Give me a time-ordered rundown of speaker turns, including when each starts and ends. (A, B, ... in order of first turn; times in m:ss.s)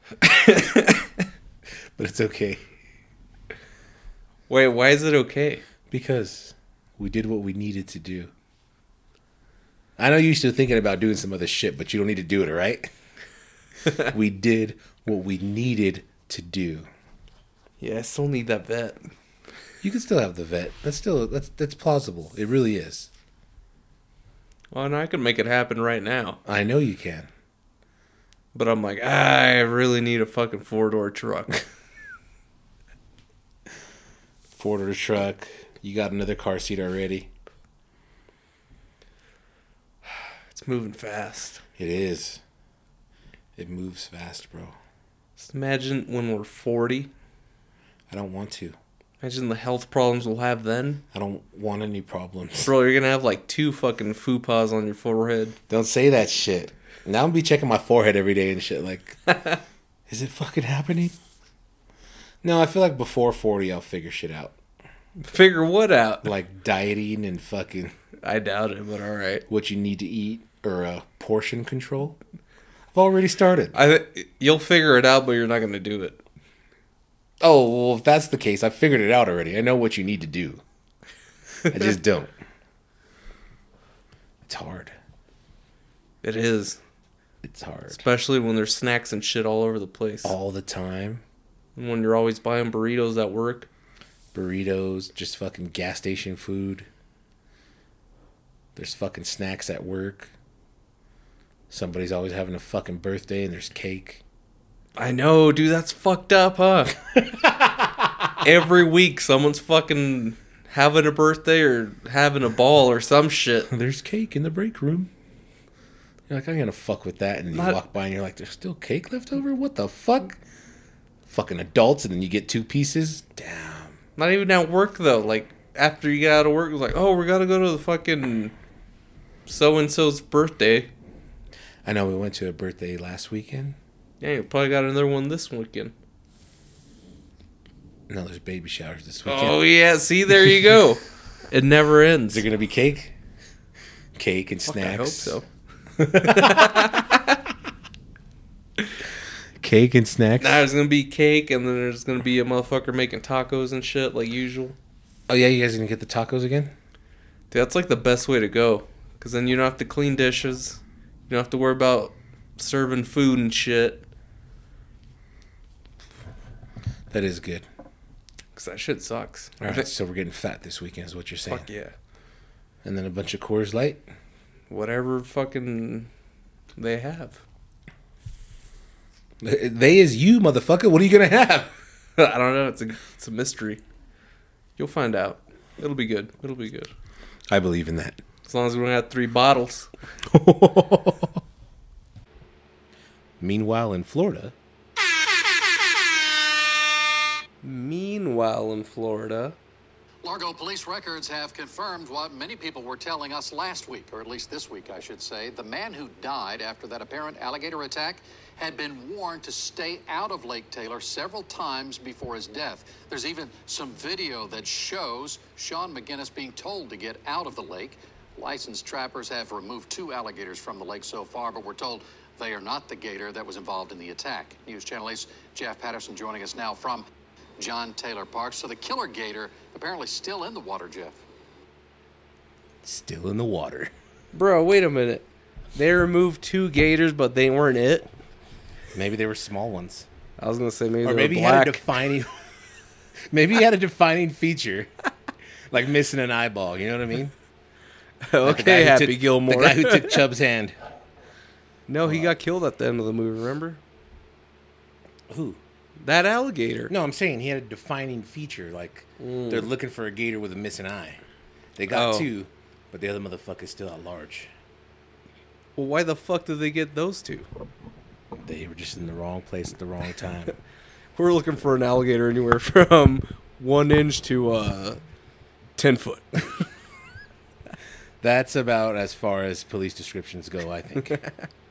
0:00.2-0:01.1 A
0:02.0-0:02.7 B
0:04.5-0:05.6 A
0:05.9-0:08.3 B
0:10.0-0:12.9 B
0:13.9-0:16.9 B
0:17.8-0:19.0 A
0:19.8-0:23.1 B
0:24.7-0:26.4 A
0:26.4-0:27.3 B
0:28.5-0:31.6 A
0:34.5-0:37.3 B
0:40.1-0:41.6 A
0:41.8-0:42.4 B
0:43.6-0:44.7 B
0:45.4-0:47.1 A
0:48.1-0:48.8 B
0:49.2-0:51.0 A
0:51.1-0:52.7 B
0:52.6-0:55.6 A
0:55.7-0:59.4 B
1:00.1-1:01.1 B
1:02.4-1:04.6 B
1:05.2-1:06.3 A
1:06.2-1:07.9 B
1:08.2-1:09.4 A
1:09.5-1:12.2 B
1:12.9-1:13.8 B
1:13.7-1:16.2 A
1:17.4-1:20.6 B
1:21.6-1:22.3 B
1:24.4-1:24.9 B
1:26.2-1:26.8 A
1:27.4-1:28.0 B
1:27.9-1:30.4 A
1:30.2-1:31.2 B
1:31.8-1:33.7 A
1:34.3-1:36.9 B
1:38.8-1:40.3 B
1:41.7-1:44.2 B
1:45.0-1:47.0 A
1:47.3-1:48.1 B
1:48.4-1:53.7 A
1:53.7-1:55.1 B
1:56.3-2:00.4 B
1:57.5-1:57.8 A
2:01.3-2:04.0 B
2:04.2-2:08.5 A
2:09.5-2:10.9 A
2:11.8-2:13.8 B
2:14.2-2:15.9 A
2:18.1-2:19.6 B
2:19.2-2:22.4 A
2:22.3-2:23.1 B
2:24.2-2:25.4 B
2:24.6-2:25.4 A
2:26.0-2:27.0 B
2:26.1-2:27.3 A
2:29.6-2:30.6 B
2:30.4-2:34.8 A
2:35.3-2:36.7 B
2:37.5-2:44.0 A
2:47.1-2:47.6 B
2:48.5-2:49.9 A
2:49.6-2:51.6 B
2:51.5-2:51.9 A
2:52.8-2:54.0 B
2:54.7-2:56.1 A
2:56.8-2:57.4 A
2:59.4-3:01.7 B
3:02.2-3:03.8 A
3:04.8-3:06.9 A
3:07.5-3:08.2 B
3:08.4-3:09.9 A
3:10.3-3:11.4 B
3:13.4-3:14.5 B
3:17.6-3:19.6 A
3:20.2-3:47.0 C
3:47.6-3:51.2 C
3:52.8-3:53.9 B
3:54.3-3:55.2 A
3:55.7-3:58.1 A
3:58.9-4:00.1 B
4:00.4-4:01.8 A
4:01.0-4:02.4 B
4:03.3-4:04.9 B
4:05.7-4:07.3 B
4:08.2-4:10.2 A
4:08.4-4:10.8 B
4:11.9-4:13.8 A
4:12.0-4:12.4 B
4:15.3-4:15.6 B
4:16.0-4:16.9 A
4:16.9-4:21.2 B
4:19.2-4:19.6 A
4:21.8-4:24.5 B
4:21.9-4:22.3 A
4:25.8-4:27.5 A
4:28.4-4:30.5 B
4:31.2-4:35.0 A
4:35.8-4:36.7 A
4:38.2-4:41.2 B